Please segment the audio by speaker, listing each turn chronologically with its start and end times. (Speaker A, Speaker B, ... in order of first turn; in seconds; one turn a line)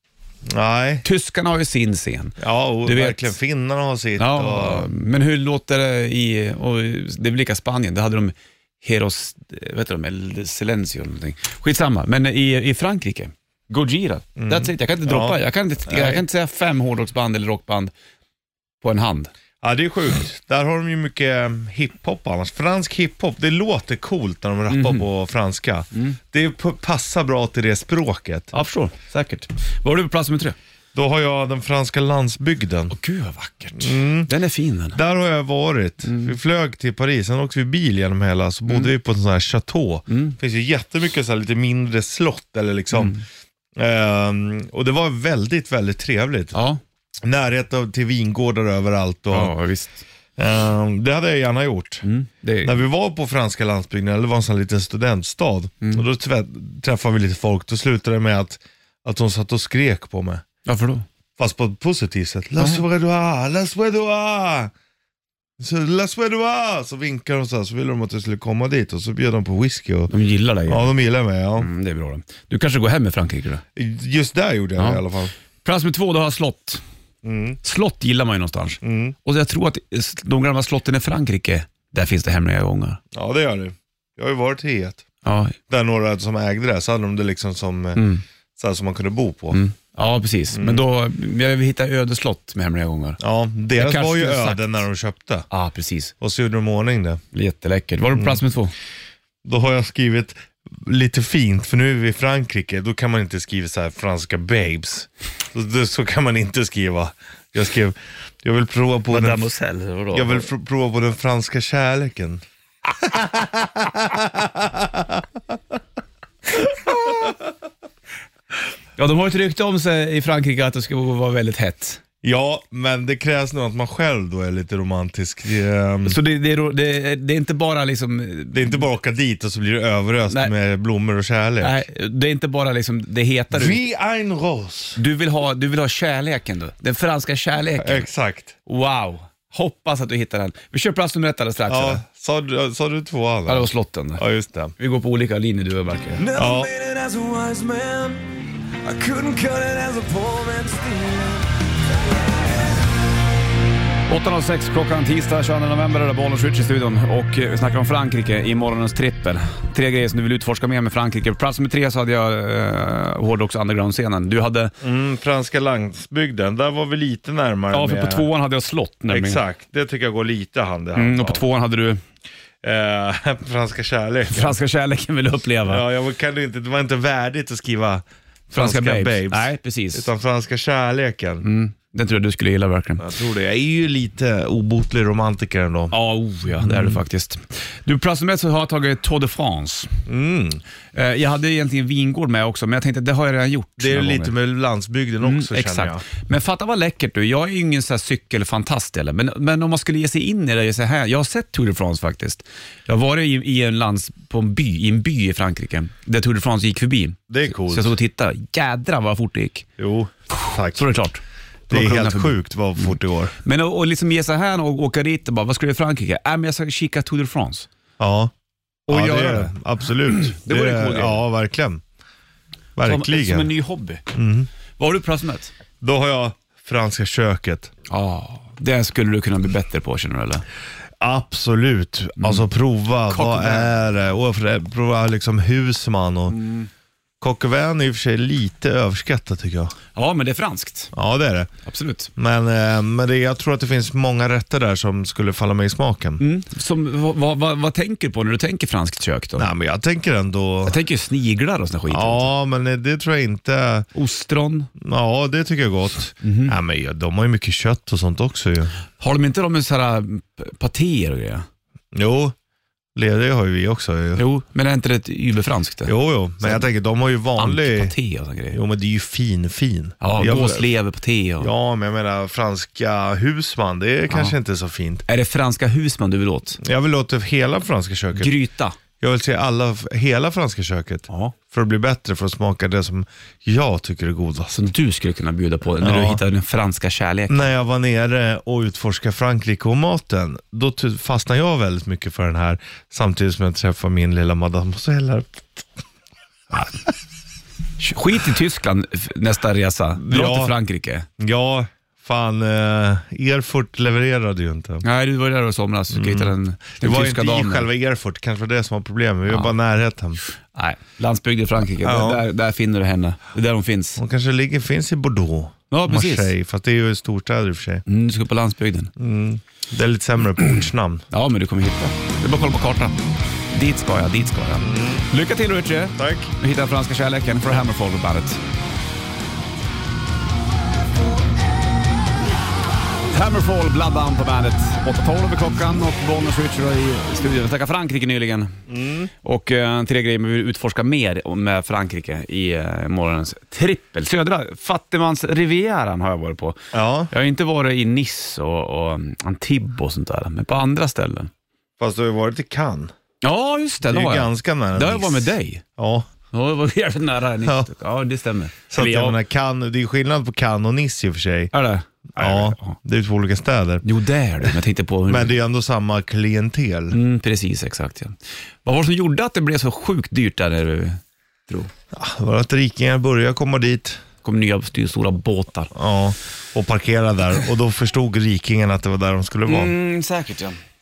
Speaker A: 0.5-1.0
Speaker B: 1.0-3.3
Speaker A: 2.4-4.9
Speaker B: 4.2-17.9
Speaker A: 14.4-16.2
Speaker B: 18.8-19.3
Speaker A: 19.6-28.5
Speaker B: 24.7-25.1
Speaker B: 25.9-26.2
Speaker B: 28.5-30.6
Speaker A: 30.9-32.9
Speaker B: 32.9-35.0
Speaker A: 33.8-34.3
Speaker A: 34.9-43.2
Speaker B: 36.0-36.3
Speaker B: 40.1-40.4
Speaker B: 42.9-43.2
Speaker A: 43.8-46.5
Speaker B: 46.5-46.8
Speaker A: 47.2-49.5
Speaker B: 49.3-50.0
Speaker A: 50.4-52.0
Speaker B: 52.0-52.8
Speaker A: 52.6-60.4
Speaker B: 60.6-61.0
Speaker A: 61.4-64.7
Speaker A: 65.6-70.1
Speaker B: 70.1-70.9
Speaker A: 70.7-71.7
Speaker B: 71.6-73.6
Speaker A: 73.8-75.3
Speaker B: 74.8-75.0
Speaker B: 75.6-76.8
Speaker A: 77.2-77.6
Speaker B: 77.6-83.0
Speaker A: 78.8-79.2
Speaker A: 83.1-85.0
Speaker B: 85.2-85.5
Speaker A: 85.7-88.0
Speaker B: 88.0-88.2
Speaker A: 88.6-89.6
Speaker B: 89.5-93.2
Speaker A: 90.5-90.8
Speaker A: 93.2-95.5
Speaker B: 93.8-94.7
Speaker B: 95.5-96.1
Speaker A: 96.2-97.2
Speaker B: 97.3-98.7
Speaker A: 99.4-109.5
Speaker B: 109.1-110.5
Speaker A: 110.1-112.4
Speaker A: 112.9-115.2
Speaker A: 116.6-117.3
Speaker B: 119.0-122.0
Speaker A: 122.2-126.2
Speaker B: 126.0-128.8
Speaker A: 128.5-131.8
Speaker B: 131.6-133.8
Speaker A: 133.5-135.0
Speaker B: 135.0-138.1
Speaker A: 137.8-138.5
Speaker B: 138.6-142.0
Speaker A: 141.7-144.7
Speaker B: 143.5-144.2
Speaker B: 144.8-146.2
Speaker C: 146.2-148.3
Speaker A: 146.3-146.7
Speaker C: 148.8-152.3
Speaker B: 154.1-164.7
Speaker A: 164.8-168.3
Speaker B: 167.7-169.4
Speaker A: 169.1-171.4
Speaker B: 170.9-172.0
Speaker A: 172.6-174.6
Speaker B: 174.3-175.8
Speaker A: 175.7-181.4
Speaker B: 178.5-180.1
Speaker B: 181.4-183.1
Speaker A: 183.0-185.9
Speaker B: 185.9-190.0
Speaker A: 186.6-187.0
Speaker A: 190.1-190.6
Speaker B: 190.9-194.3
Speaker A: 193.8-196.0
Speaker B: 195.2-209.7
Speaker A: 207.3-207.9
Speaker A: 209.8-210.8
Speaker B: 210.4-217.7
Speaker A: 211.7-213.3
Speaker A: 218.0-218.3
Speaker B: 218.9-219.5
Speaker A: 218.9-221.8
Speaker B: 220.1-221.2
Speaker A: 222.8-223.5
Speaker B: 222.8-224.0
Speaker A: 224.1-224.5
Speaker B: 224.8-225.5
Speaker A: 225.8-227.7
Speaker B: 227.9-230.4
Speaker A: 231.0-236.4
Speaker B: 232.2-232.4
Speaker B: 233.1-233.8
Speaker B: 236.3-236.7
Speaker A: 237.2-239.7
Speaker B: 239.9-240.9
Speaker A: 240.9-241.5
Speaker B: 241.6-242.1
Speaker A: 242.2-246.2
Speaker B: 246.2-249.5
Speaker A: 249.4-250.8
Speaker B: 250.7-252.3
Speaker A: 251.9-253.9
Speaker B: 253.9-254.7
Speaker A: 254.8-258.7
Speaker B: 256.2-256.6
Speaker B: 259.0-261.4
Speaker A: 261.9-262.3
Speaker A: 262.9-264.2
Speaker B: 264.2-266.6
Speaker A: 265.9-267.9
Speaker B: 267.4-268.6
Speaker A: 268.5-270.7
Speaker B: 270.0-271.5
Speaker A: 271.4-275.0
Speaker B: 274.1-274.3
Speaker B: 275.1-276.6
Speaker A: 276.6-278.4
Speaker B: 278.2-278.8
Speaker A: 279.0-284.6
Speaker B: 281.1-281.3
Speaker B: 284.5-287.5
Speaker A: 285.8-286.2
Speaker A: 287.3-295.7
Speaker B: 297.8-301.1
Speaker A: 300.0-300.6
Speaker A: 301.2-304.8
Speaker B: 304.8-307.7
Speaker A: 305.9-310.2
Speaker B: 310.5-314.0
Speaker A: 311.8-312.2
Speaker A: 314.0-317.8
Speaker B: 315.7-316.3
Speaker B: 317.9-318.9
Speaker A: 319.0-321.0
Speaker B: 321.1-323.0
Speaker B: 323.5-328.4
Speaker A: 324.6-325.1
Speaker A: 325.9-326.3
Speaker B: 333.1-338.6
Speaker A: 338.7-339.1
Speaker B: 339.2-351.3
Speaker A: 346.7-347.1
Speaker A: 351.8-352.9
Speaker B: 353.2-355.6
Speaker A: 353.9-356.1
Speaker B: 356.3-359.2
Speaker A: 357.4-357.7
Speaker A: 358.7-361.5
Speaker B: 361.5-362.8
Speaker A: 362.1-363.8
Speaker B: 363.8-365.3
Speaker A: 365.1-367.0
Speaker B: 366.9-371.7
Speaker A: 371.9-374.0
Speaker B: 374.2-375.7
Speaker A: 375.7-379.7
Speaker B: 379.4-380.6